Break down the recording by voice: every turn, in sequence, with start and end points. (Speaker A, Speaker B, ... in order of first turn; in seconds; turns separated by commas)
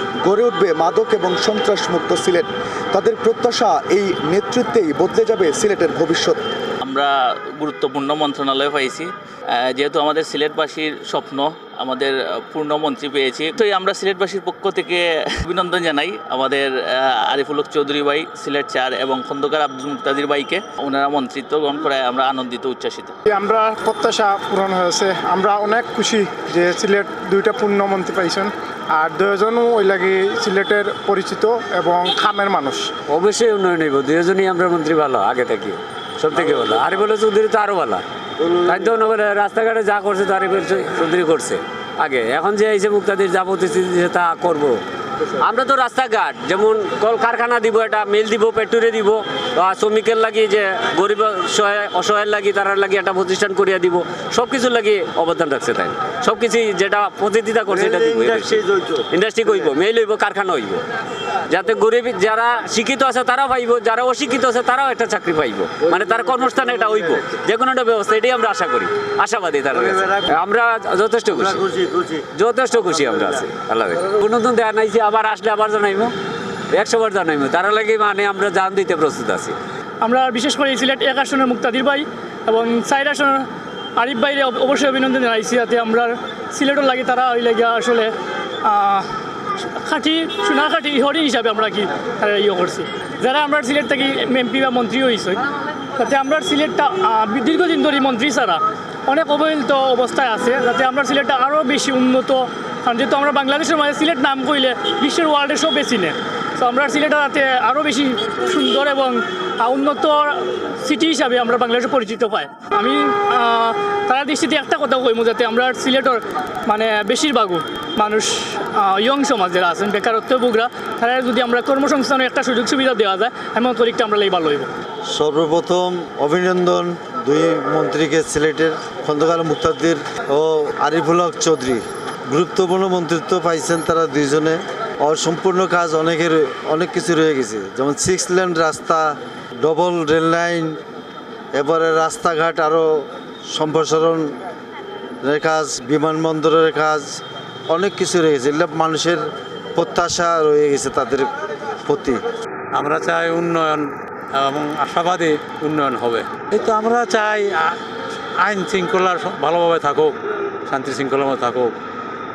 Speaker A: 0.2-6.4, Speaker B: 6.8-23.1, Speaker C: 23.3-32.9, Speaker D: 33.1-38.0, Speaker D: 38.6-44.8, Speaker D: 45.4-60.8, Speaker D: 61.5-76.1, Speaker D: 76.7-79.5, Speaker E: 80.0-88.1, Speaker E: 88.6-89.1, Speaker E: 89.8-95.4, Speaker E: 95.9-124.7, Speaker F: 125.1-140.8, Speaker F: 141.5-144.3, Speaker F: 145.2-149.2, Speaker F: 149.8-151.3, Speaker F: 151.8-152.2, Speaker G: 152.7-157.8, Speaker G: 158.4-160.2, Speaker G: 160.7-161.7